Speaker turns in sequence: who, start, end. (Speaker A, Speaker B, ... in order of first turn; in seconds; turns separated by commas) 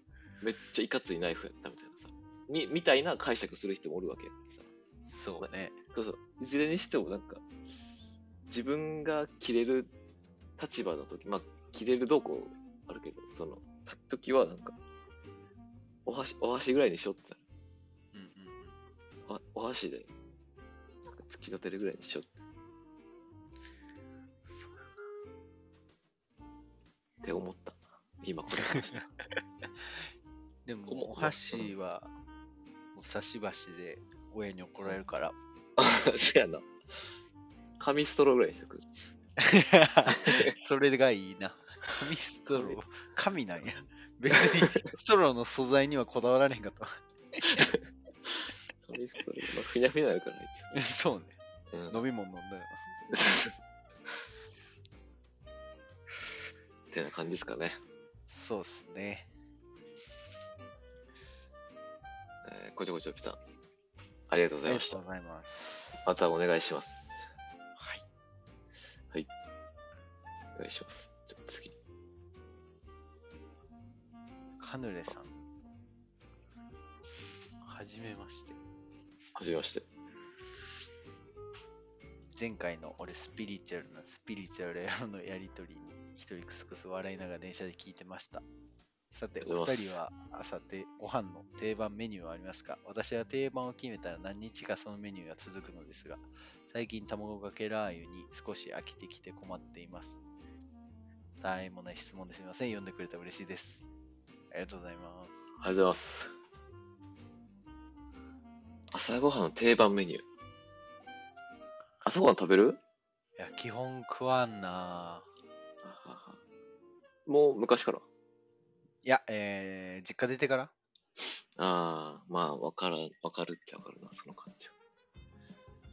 Speaker A: 0.4-4.7, Speaker B: 5.1-5.8, Speaker A: 5.4-7.4, Speaker A: 8.5-9.9, Speaker A: 10.6-14.8, Speaker A: 16.1-17.4, Speaker B: 18.1-18.7, Speaker A: 19.3-20.1, Speaker A: 21.1-22.4, Speaker A: 27.2-29.1, Speaker B: 30.7-32.1, Speaker A: 30.9-31.7, Speaker B: 33.0-35.4, Speaker A: 35.8-36.7, Speaker A: 37.8-38.9, Speaker B: 39.4-47.7, Speaker A: 40.1-40.5, Speaker A: 42.5-42.8, Speaker A: 44.3-44.9, Speaker A: 47.5-47.8, Speaker A: 48.3-50.7, Speaker B: 50.7-51.4, Speaker A: 51.7-52.0, Speaker B: 51.9-52.8, Speaker A: 53.1-53.6, Speaker A: 56.9-57.8, Speaker B: 58.3-59.3, Speaker A: 62.5-63.4, Speaker A: 64.3-65.0, Speaker B: 64.7-66.0, Speaker A: 66.0-67.2, Speaker B: 67.8-68.0, Speaker A: 70.6-71.8, Speaker B: 74.6-75.3, Speaker B: 77.6-78.6, Speaker A: 79.4-79.9, Speaker B: 82.3-88.4, Speaker B: 89.1-100.2, Speaker A: 89.4-90.0, Speaker B: 101.4-103.9, Speaker B: 104.5-105.4, Speaker A: 105.6-106.3, Speaker A: 108.9-110.2, Speaker A: 112.0-112.8, Speaker B: 113.4-115.3, Speaker A: 115.8-116.4, Speaker A: 117.3-118.0, Speaker B: 119.0-120.7, Speaker A: 121.6-124.7